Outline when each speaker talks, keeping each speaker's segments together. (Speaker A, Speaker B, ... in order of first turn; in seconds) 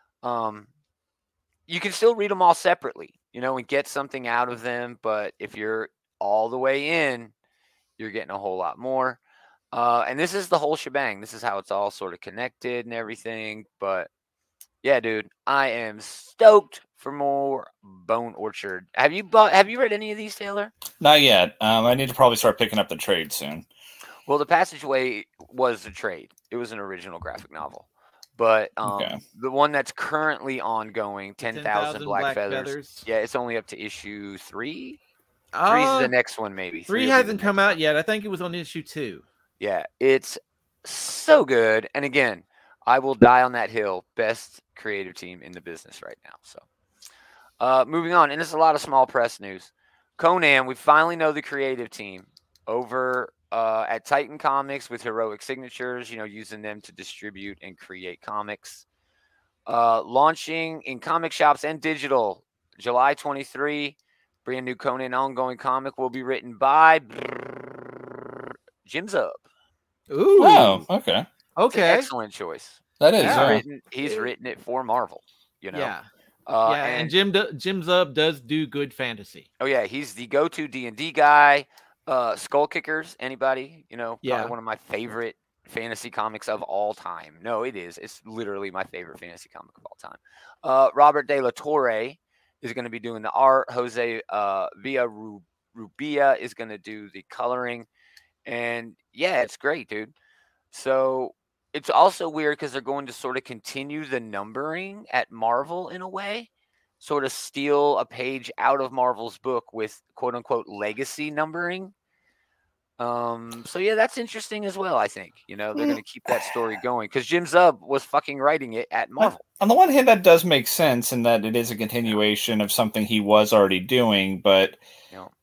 Speaker A: 0.2-0.7, 1.7-7.3, 8.0-9.2, 9.7-14.1, 14.8-20.7, 24.2-35.0, 35.7-37.8, 39.6-46.6, 47.6-58.8, 59.7-67.7, 68.8-69.4, 71.7-75.9, 76.5-77.1, 79.6-97.9, 98.5-100.1, 100.7-106.5, 107.0-111.9, 113.0-119.4
Speaker B: 21.0-23.6, 28.8-29.2, 70.4-71.3, 73.0-73.6, 119.2-124.8
Speaker C: 31.4-33.1, 35.5-36.1, 36.9-39.2, 70.1-70.8, 71.6-72.1, 73.2-74.3, 75.7-76.0, 76.6-79.5, 84.2-84.5